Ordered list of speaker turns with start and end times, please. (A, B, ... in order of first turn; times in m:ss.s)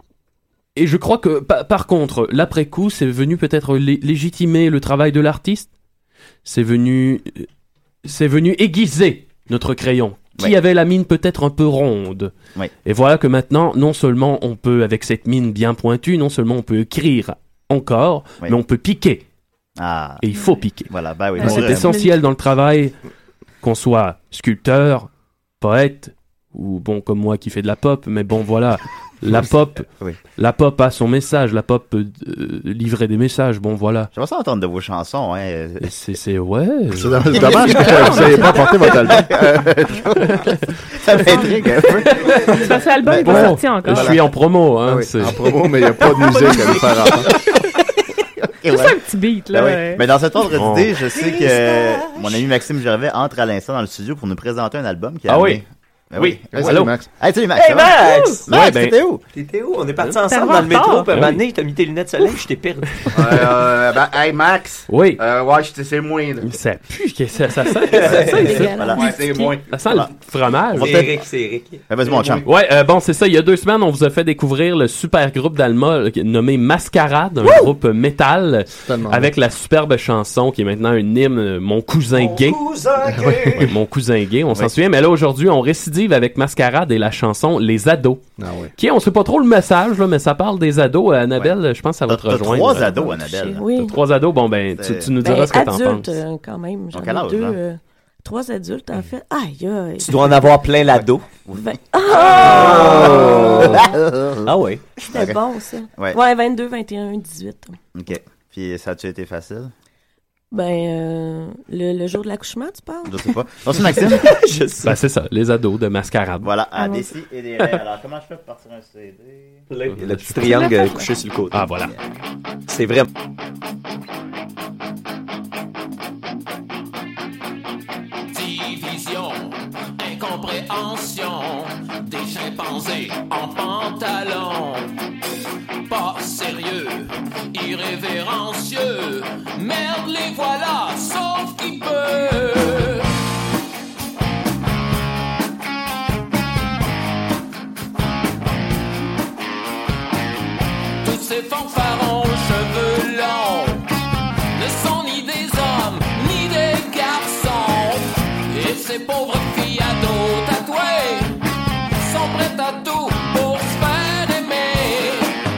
0:00.8-0:05.7 A
0:06.4-0:07.5 A
0:08.0-0:19.2 A
0:19.8-0:20.2 B
0:20.2-0:22.9 A
0:20.3-0:20.6 C
0:20.9-0:21.9 B
0:21.4-0:22.2 C
0:23.6-0:25.1 A
0:25.6-0:34.1 A
0:34.1-0:35.9 B
0:35.8-0:38.3 A
0:36.9-0:40.3 D
0:37.3-0:39.1 C
0:39.1-0:39.6 B
0:41.0-0:42.2 B
0:41.2-0:44.2 C
0:43.0-0:44.2 B
0:43.2-0:45.4 A
0:45.2-0:47.3 D
0:45.9-0:47.5 C
0:48.6-0:49.0 B
0:48.6-0:50.1 C
0:49.5-0:59.2 B
0:50.5-0:51.0 A
0:51.2-0:52.4 E
0:55.3-0:55.6 A
0:56.2-0:56.9 A
0:56.5-0:57.1 D
0:57.5-0:58.5 E
0:58.0-0:58.4 C
0:58.5-0:59.0 A
0:59.3-1:03.0 E
1:00.2-1:01.1 C
1:01.1-1:01.4 A
1:03.1-1:06.5 F
1:04.9-1:05.2 A
1:06.4-1:08.7 A
1:07.9-1:08.6 E
1:08.1-1:09.0 B
1:08.2-1:09.6 C
1:08.4-1:09.2 G
1:08.9-1:09.8 F
1:09.7-1:11.0 A
1:09.8-1:10.1 B
1:10.7-1:11.3 B
1:10.7-1:12.4 E
1:11.9-1:12.4 B
1:12.4-1:22.6 A
1:18.8-1:19.3 D
1:22.1-1:23.7 E
1:23.0-1:23.7 D
1:23.5-1:28.2 A
1:28.4-1:28.7 D
1:28.8-1:33.0 A
1:32.1-1:33.7 B
1:33.0-1:34.0 G
1:33.7-1:36.2 A
1:34.8-1:35.1 B
1:35.2-1:40.2 G
1:36.9-1:37.6 B
1:40.0-1:41.3 E
1:41.5-1:43.9 G
1:42.2-1:43.8 E
1:42.3-1:44.5 B
1:44.4-1:45.0 E
1:45.1-1:47.8 G
1:45.1-1:45.4 B
1:47.9-1:49.7 B
1:50.5-1:53.3 G
1:53.0-1:54.3 B
1:54.0-1:55.0 E
1:54.8-1:56.5 A
1:56.4-1:59.6 B
1:59.7-2:01.7 E
1:59.9-2:00.3 A
2:00.4-2:01.1 C
2:01.5-2:01.9 A
2:02.7-2:03.1 E
2:08.3-2:14.9 H
2:15.9-2:23.1 H
2:31.0-2:33.8 H
2:34.5-2:41.4 H
2:42.0-2:45.4 H